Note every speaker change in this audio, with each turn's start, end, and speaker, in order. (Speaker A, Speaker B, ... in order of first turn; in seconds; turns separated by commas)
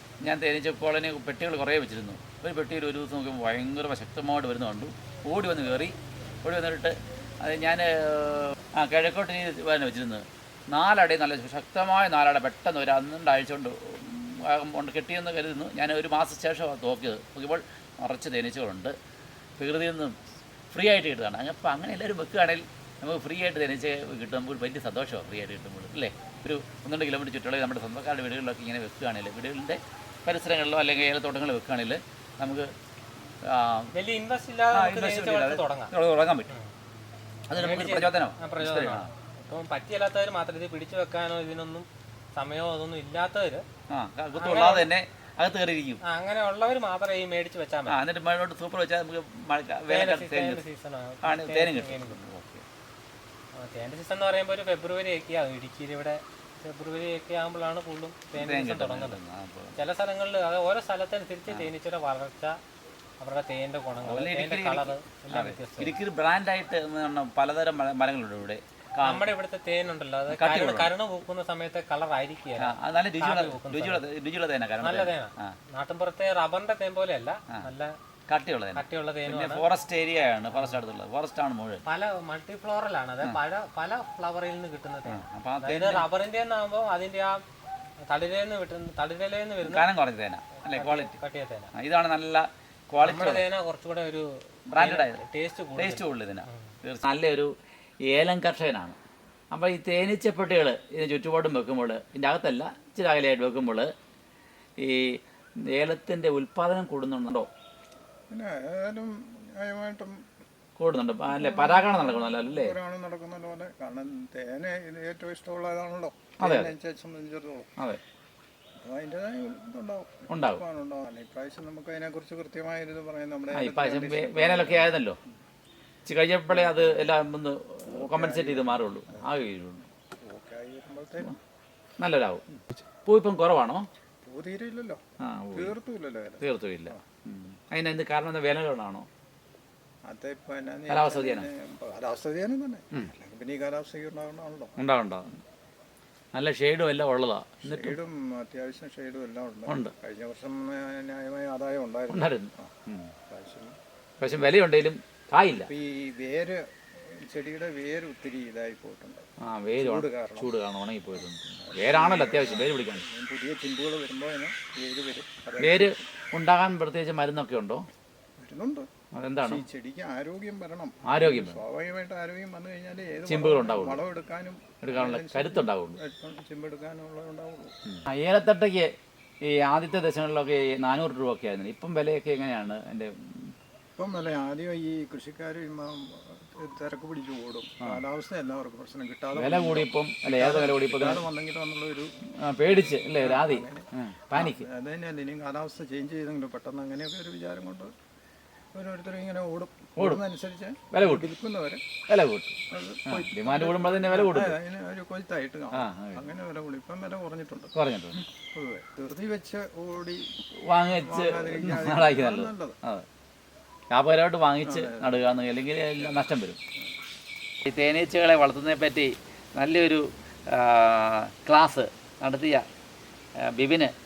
Speaker A: 0.2-18.9, Speaker A: 19.6-20.1, Speaker A: 20.7-32.7, Speaker A: 33.4-33.9, Speaker B: 33.9-35.9, Speaker A: 34.7-36.5, Speaker A: 37.5-39.1, Speaker B: 37.5-43.6, Speaker A: 43.9-46.0, Speaker B: 44.4-44.9, Speaker B: 46.0-48.0, Speaker A: 47.9-50.6, Speaker B: 49.9-52.2, Speaker A: 51.2-52.6, Speaker B: 53.6-59.2, Speaker A: 58.3-59.8, Speaker B: 59.8-62.5, Speaker B: 63.2-66.0, Speaker A: 64.0-69.3, Speaker B: 69.0-74.0, Speaker A: 70.3-70.9, Speaker A: 72.6-75.5, Speaker B: 74.8-77.9, Speaker A: 78.3-81.8, Speaker B: 78.7-79.6, Speaker B: 80.5-80.8, Speaker B: 81.8-87.4, Speaker A: 85.0-86.0, Speaker B: 88.1-89.8, Speaker A: 89.6-91.2, Speaker B: 90.6-91.7, Speaker A: 91.7-93.5, Speaker B: 93.0-96.7, Speaker A: 94.7-95.2, Speaker A: 95.8-97.5, Speaker A: 98.1-99.0, Speaker A: 99.5-103.9, Speaker A: 104.8-107.5, Speaker C: 108.3-110.2, Speaker A: 110.8-112.8, Speaker C: 111.3-117.7, Speaker A: 116.4-116.7, Speaker C: 118.8-125.0, Speaker A: 120.3-120.6, Speaker A: 123.5-125.2, Speaker A: 126.1-129.9, Speaker C: 126.5-127.1, Speaker C: 127.9-129.2, Speaker C: 130.2-131.3, Speaker A: 132.0-132.4, Speaker A: 133.1-133.9, Speaker C: 134.2-135.0, Speaker A: 135.2-135.7, Speaker C: 135.5-137.0, Speaker A: 136.4-139.1, Speaker C: 140.1-144.7, Speaker A: 140.9-141.5, Speaker A: 144.8-145.4, Speaker A: 146.3-148.0, Speaker C: 147.6-152.7, Speaker A: 149.7-149.9, Speaker A: 152.1-153.1, Speaker C: 153.3-153.7, Speaker A: 154.2-155.7, Speaker C: 155.5-159.2, Speaker A: 159.4-163.0, Speaker C: 159.8-160.5, Speaker C: 161.6-165.9, Speaker A: 165.6-167.8, Speaker C: 168.4-168.9, Speaker A: 169.2-169.6, Speaker C: 169.4-177.7, Speaker A: 171.1-171.6, Speaker A: 173.3-174.0, Speaker A: 174.8-176.0, Speaker A: 177.9-178.9, Speaker A: 179.4-183.5, Speaker C: 184.0-192.1, Speaker A: 189.3-191.2, Speaker A: 192.4-194.7, Speaker C: 193.1-197.9, Speaker C: 198.7-201.8, Speaker A: 200.0-200.2, Speaker A: 200.9-201.3, Speaker A: 202.1-202.6, Speaker C: 202.7-207.7, Speaker A: 203.1-204.6, Speaker A: 205.7-206.3, Speaker A: 207.7-208.2, Speaker C: 208.5-210.3, Speaker A: 210.7-213.1, Speaker C: 210.9-212.8, Speaker A: 213.9-216.6, Speaker C: 214.6-215.2, Speaker A: 217.6-222.6, Speaker A: 223.5-223.9